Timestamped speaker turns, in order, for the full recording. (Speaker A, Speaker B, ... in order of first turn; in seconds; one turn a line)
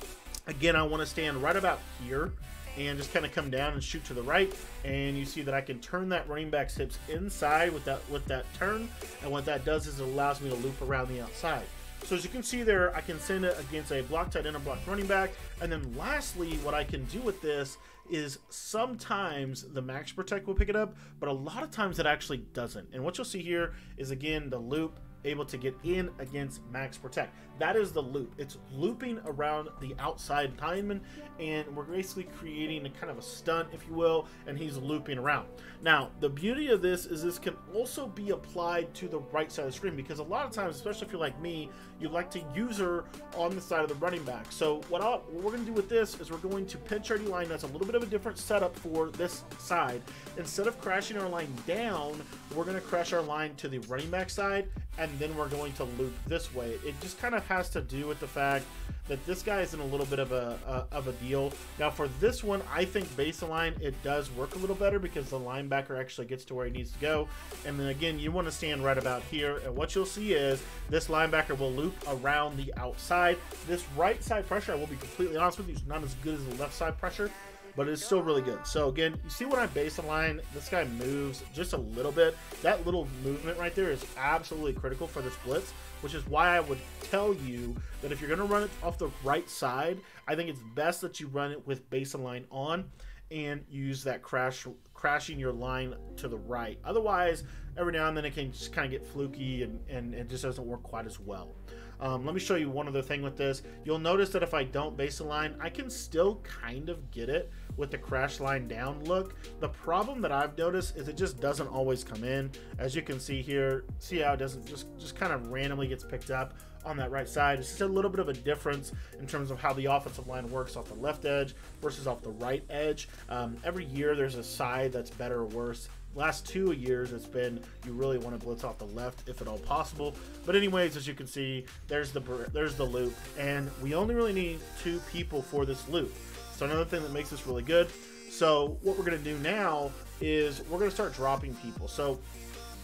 Speaker A: 0.5-142.2